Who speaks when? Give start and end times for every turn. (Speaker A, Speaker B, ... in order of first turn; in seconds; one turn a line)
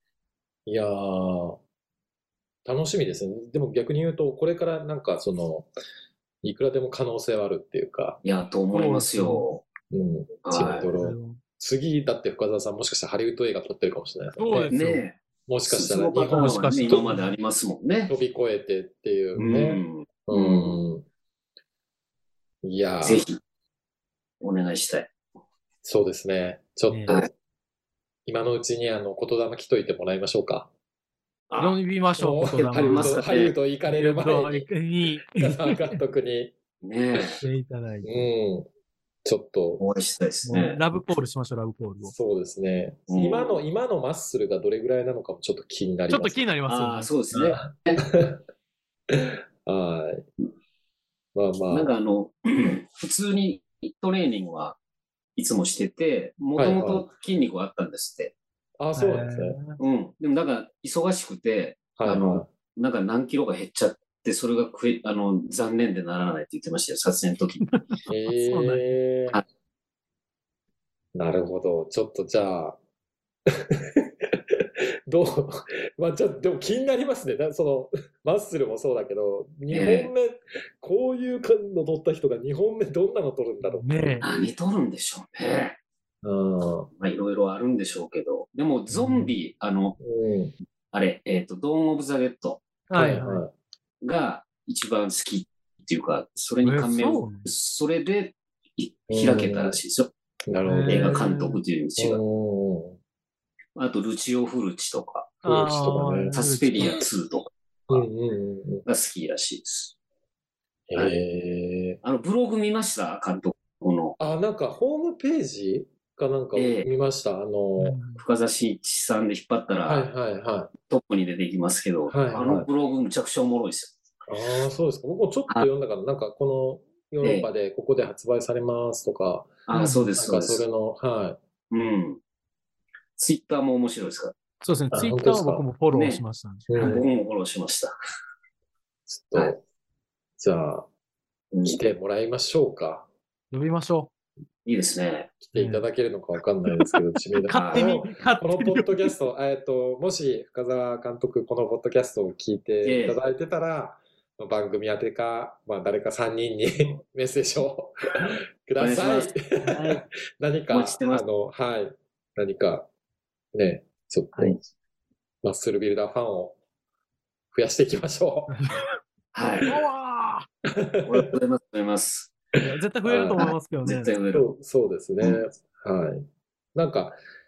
Speaker A: 0.7-1.6
Speaker A: 2.6-5.7
Speaker A: 6.4-8.2
Speaker B: 8.2-9.6
Speaker C: 8.7-9.5
Speaker A: 9.9-14.7
Speaker B: 10.4-10.9
Speaker C: 10.9-11.4
Speaker C: 14.4-15.0
Speaker B: 14.7-18.1
Speaker A: 15.5-17.1
Speaker C: 16.3-17.3
Speaker A: 18.1-21.0
Speaker B: 19.4-20.8
Speaker A: 22.6-23.2
Speaker B: 23.0-23.4
Speaker B: 24.4-25.1
Speaker A: 25.8-27.2
Speaker C: 26.9-27.1
Speaker A: 28.2-30.7
Speaker B: 31.5-31.8
Speaker C: 31.6-33.2
Speaker A: 32.1-34.7
Speaker B: 32.8-33.5
Speaker C: 33.9-36.0
Speaker A: 35.3-36.5
Speaker B: 36.8-37.4
Speaker C: 37.4-38.2
Speaker A: 38.0-38.7
Speaker A: 39.2-39.8
Speaker B: 39.8-40.8
Speaker C: 40.5-42.1
Speaker A: 42.0-46.5
Speaker B: 43.1-43.6
Speaker C: 46.1-47.1
Speaker B: 46.7-48.0
Speaker A: 47.3-48.4
Speaker A: 49.1-50.2
Speaker A: 51.3-51.9
Speaker B: 51.7-54.8
Speaker B: 55.4-58.3
Speaker A: 56.5-57.0
Speaker A: 58.8-59.6
Speaker C: 59.0-59.8
Speaker B: 59.8-67.7
Speaker A: 62.0-62.5
Speaker C: 67.7-68.8
Speaker A: 68.1-69.4
Speaker A: 71.1-72.8
Speaker A: 73.5-84.4
Speaker B: 79.7-80.1
Speaker C: 83.6-84.2
Speaker B: 84.2-85.8
Speaker A: 86.2-86.9
Speaker B: 87.0-90.0
Speaker C: 88.9-89.3
Speaker A: 90.0-90.5
Speaker B: 90.9-92.6
Speaker C: 92.9-93.4
Speaker A: 92.9-93.5
Speaker B: 94.0-100.1
Speaker C: 96.6-97.5
Speaker A: 99.1-99.8
Speaker A: 100.5-101.2
Speaker C: 100.6-101.6
Speaker B: 100.8-102.2
Speaker A: 102.0-103.0
Speaker B: 103.8-105.3
Speaker C: 105.4-107.0
Speaker A: 105.4-107.0
Speaker B: 106.3-108.0
Speaker A: 107.9-108.8
Speaker B: 108.8-109.9
Speaker A: 110.9-112.0
Speaker B: 112.0-114.2
Speaker A: 114.2-118.0
Speaker B: 116.5-116.9
Speaker C: 117.8-118.2
Speaker B: 118.2-120.1
Speaker A: 119.8-120.7
Speaker B: 120.9-123.9
Speaker A: 122.1-122.7
Speaker A: 124.3-129.6
Speaker B: 127.2-127.5
Speaker B: 129.7-130.6
Speaker C: 129.7-130.1
Speaker A: 130.2-131.4
Speaker B: 131.7-132.2
Speaker B: 133.2-134.3
Speaker C: 134.6-137.1
Speaker A: 134.9-135.7
Speaker B: 135.9-136.2
Speaker A: 136.7-137.0
Speaker B: 136.8-137.9
Speaker A: 139.1-139.6
Speaker A: 140.4-140.9
Speaker B: 141.5-141.8
Speaker A: 141.6-143.1
Speaker C: 143.5-144.1
Speaker B: 144.6-145.3
Speaker A: 145.4-162.9
Speaker C: 145.5-145.8
Speaker C: 146.7-149.1
Speaker B: 147.5-147.9
Speaker B: 152.8-153.2
Speaker B: 158.8-159.3
Speaker C: 159.6-160.0
Speaker B: 160.7-161.2
Speaker A: 163.5-164.6
Speaker A: 165.4-166.6
Speaker A: 167.5-168.8
Speaker C: 168.5-168.9
Speaker B: 169.3-169.7
Speaker C: 169.7-170.5
Speaker A: 170.7-171.3
Speaker B: 171.0-172.3
Speaker C: 172.6-174.1
Speaker A: 173.0-173.5
Speaker B: 173.8-174.5
Speaker A: 174.3-177.2